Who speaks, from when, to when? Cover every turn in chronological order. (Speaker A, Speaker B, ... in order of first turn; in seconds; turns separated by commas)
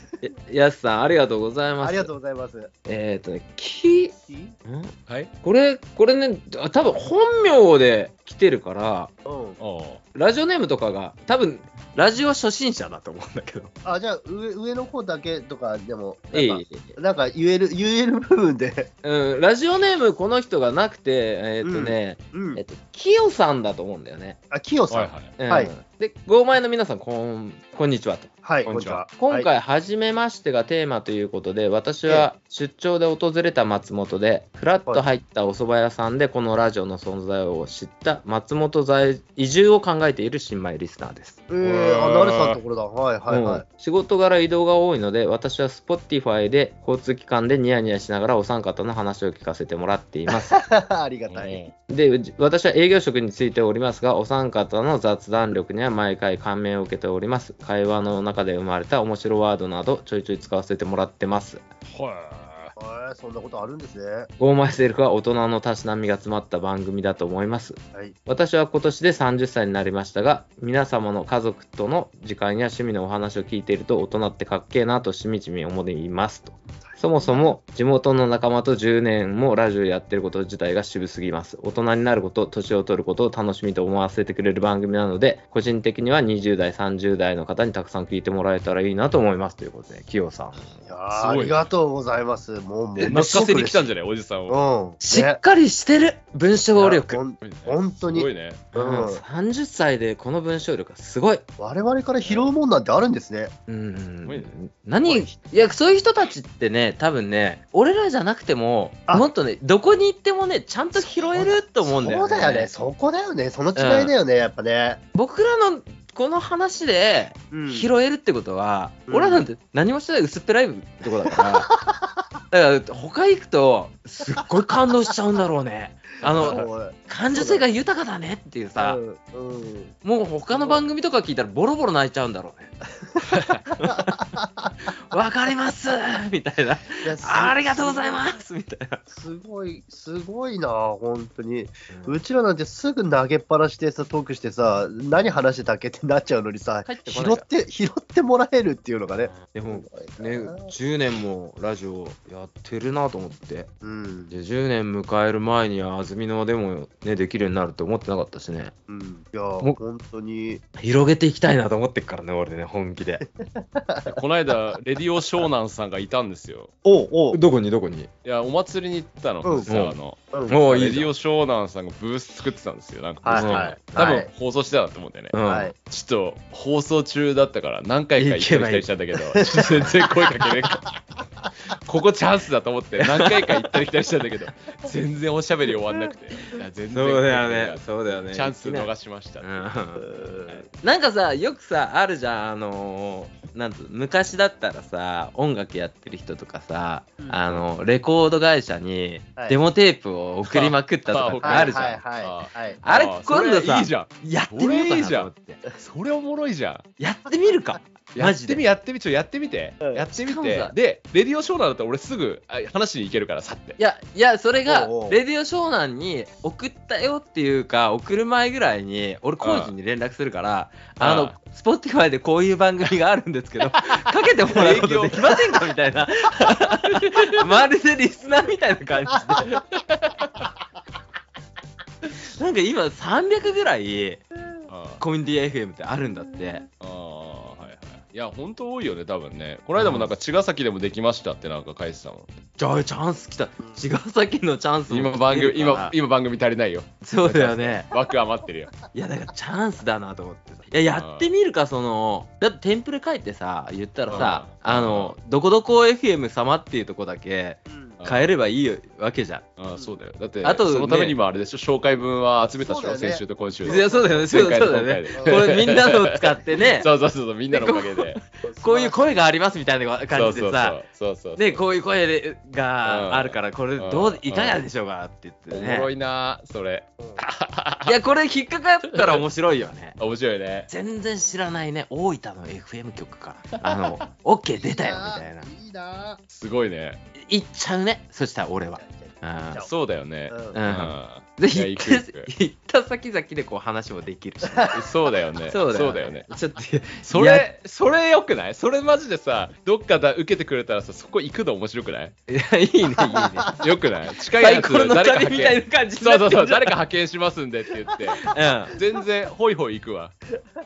Speaker A: 0.2-2.1, Speaker B: 1.8-2.7, Speaker A: 2.9-9.1, Speaker B: 4.3-4.6, Speaker B: 9.2-9.6, Speaker C: 9.6-10.0, Speaker A: 10.2-13.7, Speaker B: 13.8-18.9, Speaker A: 16.3-16.9, Speaker A: 19.0-24.4, Speaker B: 21.6-22.6, Speaker B: 24.5-25.7, Speaker C: 24.9-25.3, Speaker A: 25.4-41.4, Speaker B: 28.4-29.5, Speaker C: 28.7-29.0, Speaker B: 41.5-43.6, Speaker C: 41.6-42.6, Speaker A: 43.3-50.6, Speaker B: 50.3-51.6, Speaker C: 51.3-51.7, Speaker A: 51.9-61.6, Speaker C: 61.9-62.8, Speaker B: 62.8-64.3, Speaker A: 64.4-90.7, Speaker B: 76.8-77.6, Speaker B: 90.8-93.9, Speaker C: 91.1-91.7, Speaker C: 93.0-94.6, Speaker A: 93.1-93.7, Speaker B: 94.5-95.4, Speaker A: 95.0-97.2, Speaker C: 96.8-98.6, Speaker B: 96.9-99.2, Speaker A: 98.7-101.4, Speaker B: 101.6-103.5, Speaker A: 103.7-112.7, Speaker B: 105.0-105.5, Speaker B: 111.0-115.0, Speaker A: 113.8-114.1, Speaker A: 115.1-121.7, Speaker B: 117.5-117.9, Speaker B: 119.1-119.4, Speaker B: 121.3-122.3, Speaker A: 122.5-129.0, Speaker B: 126.3-127.7, Speaker B: 128.8-129.9, Speaker A: 130.0-132.7, Speaker B: 130.5-130.8, Speaker C: 133.3-133.7, Speaker A: 133.8-134.3, Speaker B: 133.8-134.7, Speaker A: 134.9-139.0, Speaker B: 137.0-138.4, Speaker B: 139.1-150.7, Speaker A: 141.9-142.2, Speaker A: 146.8-147.4, Speaker A: 149.2-153.7, Speaker B: 153.8-154.3, Speaker A: 154.3-158.7, Speaker B: 158.9-160.6, Speaker A: 160.8-163.2, Speaker B: 163.4-164.2, Speaker C: 164.1-166.7, Speaker B: 166.8-167.4, Speaker A: 167.3-168.1, Speaker C: 168.2-180.9, Speaker B: 169.4-169.7, Speaker A: 169.7-171.1, Speaker B: 173.2-174.3, Speaker A: 173.3-173.7, Speaker A: 175.3-175.7, Speaker B: 175.5-175.7, Speaker A: 178.2-178.9, Speaker B: 179.3-180.7, Speaker A: 179.6-179.9, Speaker C: 181.8-189.7, Speaker A: 183.4-183.8, Speaker A: 186.9-188.9, Speaker A: 189.4-190.1, Speaker B: 190.0-190.6, Speaker A: 190.7-202.0, Speaker B: 197.2-197.4, Speaker C: 200.5-206.8, Speaker B: 201.4-202.8, Speaker A: 202.8-205.6, Speaker A: 207.0-208.6, Speaker C: 208.2-213.8, Speaker B: 209.8-210.1, Speaker A: 210.2-210.7, Speaker A: 213.8-229.6, Speaker B: 214.7-215.2, Speaker C: 219.4-219.7, Speaker C: 221.0-221.3, Speaker C: 224.5-225.6, Speaker C: 229.5-230.4, Speaker A: 232.2-234.2, Speaker C: 234.7-235.0, Speaker A: 235.0-236.7, Speaker C: 236.8-242.3, Speaker A: 239.8-240.1, Speaker A: 242.6-245.9, Speaker B: 243.6-243.9, Speaker C: 244.9-248.7, Speaker A: 247.0-247.9, Speaker A: 248.9-259.5, Speaker C: 250.9-251.3, Speaker B: 254.1-254.3, Speaker C: 254.1-255.2, Speaker B: 257.7-258.0, Speaker C: 258.0-258.3, Speaker C: 259.6-268.2, Speaker A: 260.4-261.2, Speaker B: 262.5-264.1, Speaker A: 263.6-266.9, Speaker B: 265.1-265.5, Speaker A: 267.5-270.8, Speaker B: 268.5-269.0, Speaker C: 270.1-271.6, Speaker A: 271.4-275.9, Speaker C: 272.9-274.6, Speaker C: 275.5-277.9, Speaker B: 277.0-277.2, Speaker A: 277.8-280.0, Speaker C: 278.9-279.2, Speaker C: 280.0-280.7, Speaker A: 280.7-285.5, Speaker B: 284.6-286.2, Speaker C: 286.3-287.0, Speaker A: 287.2-289.7, Speaker B: 288.8-289.7, Speaker C: 289.6-292.3, Speaker B: 290.3-290.6, Speaker A: 290.5-294.8, Speaker B: 294.5-294.9, Speaker C: 294.7-296.3, Speaker A: 295.5-297.5, Speaker C: 297.0-302.1, Speaker A: 302.3-303.6, Speaker B: 303.0-303.6, Speaker C: 303.6-310.1, Speaker A: 304.4-306.8, Speaker A: 308.2-308.8